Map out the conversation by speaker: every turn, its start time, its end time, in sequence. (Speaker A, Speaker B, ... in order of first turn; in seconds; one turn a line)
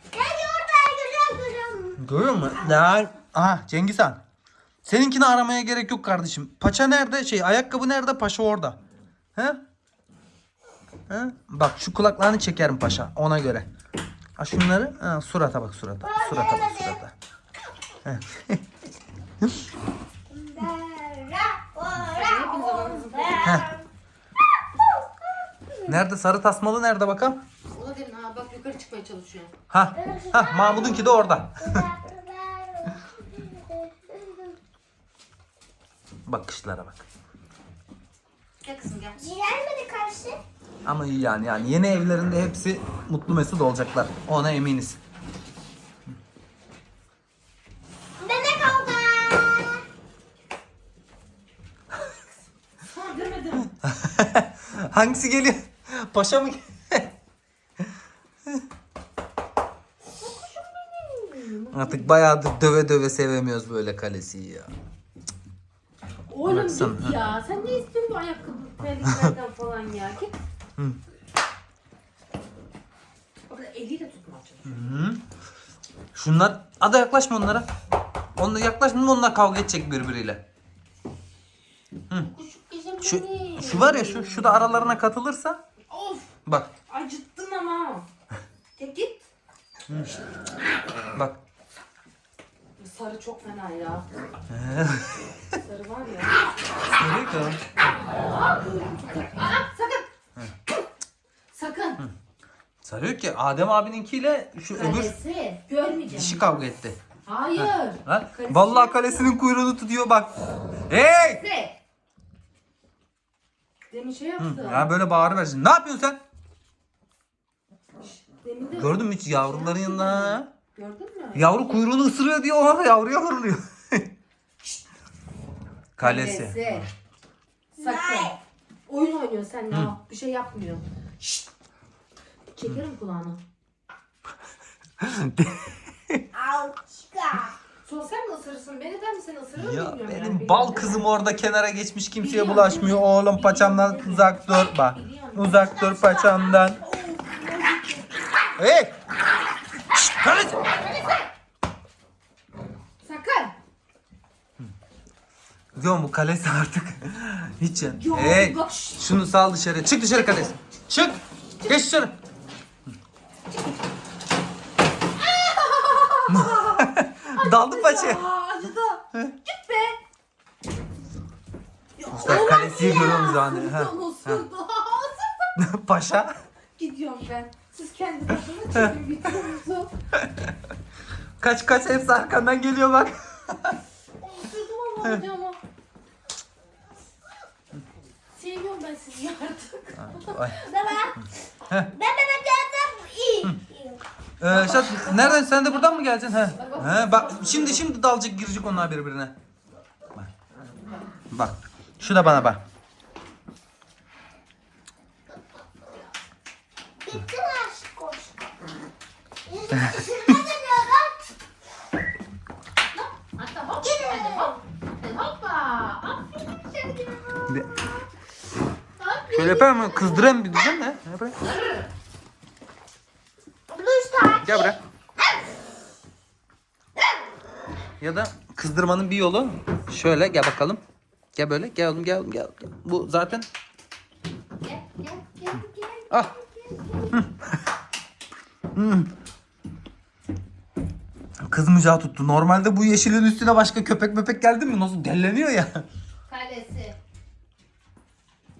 Speaker A: 0.1-2.6
Speaker B: 2.0-4.2
Speaker B: 4.8-8.8
Speaker B: 9.3-9.6
Speaker B: 11.1-13.7
Speaker B: 14.4-17.1
Speaker A: 16.0-17.0
Speaker B: 18.0-18.6
Speaker A: 20.3-23.9
Speaker C: 22.1-23.6
Speaker A: 24.5-25.9
Speaker B: 25.9-27.4
Speaker C: 27.7-29.5
Speaker B: 29.7-31.9
Speaker A: 29.9-34.5
Speaker B: 36.2-37.0
Speaker C: 38.6-39.2
Speaker A: 39.1-40.4
Speaker B: 40.8-45.0
Speaker A: 48.2-49.8
Speaker C: 52.9-53.7
Speaker B: 53.8-57.1
Speaker C: 60.2-62.1
Speaker B: 61.7-64.7
Speaker C: 66.3-70.3
Speaker B: 66.5-67.2
Speaker B: 69.0-69.3
Speaker C: 73.5-75.0
Speaker B: 74.7-75.2
Speaker B: 76.1-77.7
Speaker B: 78.3-80.4
Speaker C: 82.1-84.7
Speaker B: 83.0-85.6
Speaker C: 85.9-86.3
Speaker B: 86.5-86.7
Speaker C: 86.9-88.0
Speaker C: 88.8-89.2
Speaker B: 91.1-91.4
Speaker C: 92.8-94.1
Speaker B: 94.5-95.3
Speaker C: 95.5-96.4
Speaker B: 96.9-97.6
Speaker C: 98.2-100.1
Speaker C: 101.5-102.0
Speaker B: 102.8-105.1
Speaker C: 104.7-106.5
Speaker B: 106.1-107.0
Speaker C: 107.2-109.3
Speaker B: 107.5-110.3
Speaker B: 110.9-111.4
Speaker C: 111.0-111.8
Speaker C: 113.9-114.9
Speaker B: 114.4-116.2
Speaker C: 118.0-121.8
Speaker B: 118.7-120.5
Speaker B: 121.3-124.1
Speaker B: 126.0-126.9
Speaker C: 126.0-126.9
Speaker C: 127.7-131.4
Speaker A: 127.8-128.4
Speaker C: 132.5-133.4
Speaker B: 135.0-136.2
Speaker A: 136.3-137.6
Speaker C: 137.8-141.0
Speaker B: 139.6-146.8
Speaker C: 142.2-148.2
Speaker B: 148.6-149.0
Speaker B: 150.1-150.7
Speaker C: 153.0-153.6
Speaker B: 155.7-162.2
Speaker C: 158.0-159.0
Speaker C: 165.2-170.0
Speaker B: 166.3-168.2
Speaker C: 172.0-175.5
Speaker B: 172.1-174.4
Speaker B: 175.6-176.4
Speaker C: 176.8-179.9
Speaker B: 180.2-180.5
Speaker B: 181.4-183.8
Speaker C: 184.2-185.6
Speaker C: 188.3-190.8
Speaker B: 189.9-190.6
Speaker A: 190.6-191.2
Speaker A: 191.9-194.0
Speaker B: 194.4-199.4
Speaker C: 194.5-195.6
Speaker C: 196.4-197.8
Speaker B: 201.3-202.6
Speaker A: 207.0-208.3
Speaker A: 209.4-211.3
Speaker B: 209.7-210.0
Speaker C: 212.9-216.5
Speaker A: 213.8-214.6
Speaker A: 216.4-218.0
Speaker B: 217.5-217.7
Speaker C: 219.0-220.6
Speaker B: 219.3-221.4
Speaker C: 221.4-221.8
Speaker A: 223.7-224.8
Speaker B: 224.4-224.8
Speaker B: 228.0-230.8
Speaker B: 231.3-233.5
Speaker C: 234.6-237.2
Speaker B: 237.1-237.6
Speaker B: 238.7-239.1
Speaker B: 241.4-245.8
Speaker C: 246.3-247.0